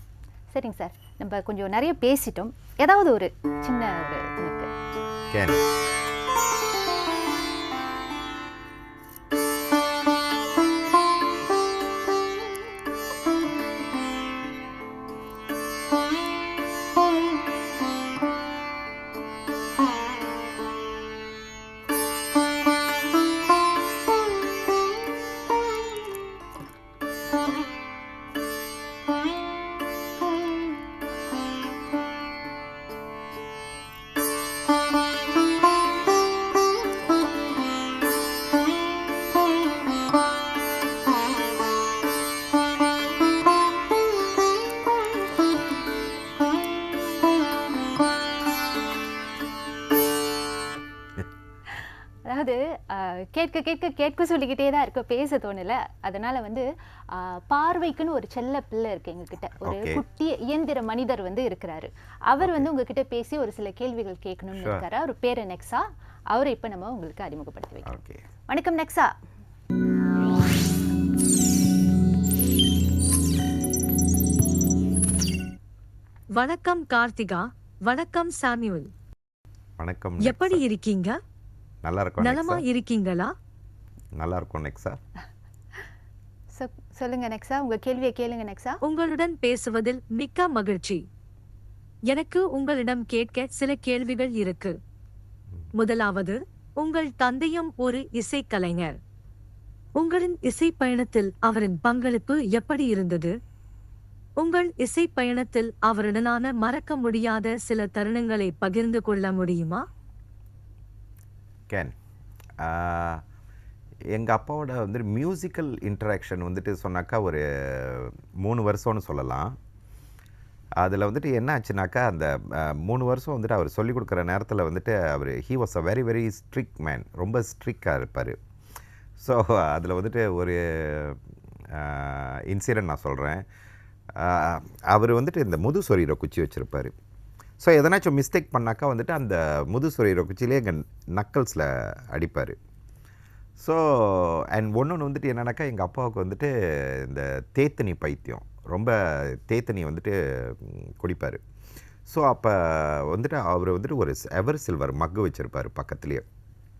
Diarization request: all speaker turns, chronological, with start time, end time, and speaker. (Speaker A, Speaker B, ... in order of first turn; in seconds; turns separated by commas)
Speaker A: 0.5-4.8, Speaker B: 5.3-5.6, Speaker A: 52.2-68.0, Speaker B: 59.6-60.0, Speaker B: 62.4-62.7, Speaker B: 64.6-64.8, Speaker B: 67.8-68.2, Speaker A: 68.5-69.1, Speaker C: 76.3-78.9, Speaker B: 79.8-80.6, Speaker C: 80.2-81.2, Speaker B: 81.8-82.6, Speaker C: 82.2-83.3, Speaker B: 84.2-85.0, Speaker A: 86.5-88.8, Speaker C: 88.8-91.0, Speaker C: 92.1-94.8, Speaker C: 95.7-99.0, Speaker C: 100.0-103.3, Speaker C: 104.4-109.8, Speaker B: 111.7-111.9, Speaker B: 112.6-113.2, Speaker B: 114.1-119.6, Speaker B: 120.8-128.4, Speaker B: 129.2-133.4, Speaker B: 134.1-136.9, Speaker B: 137.6-142.6, Speaker B: 143.6-151.4, Speaker B: 152.1-156.2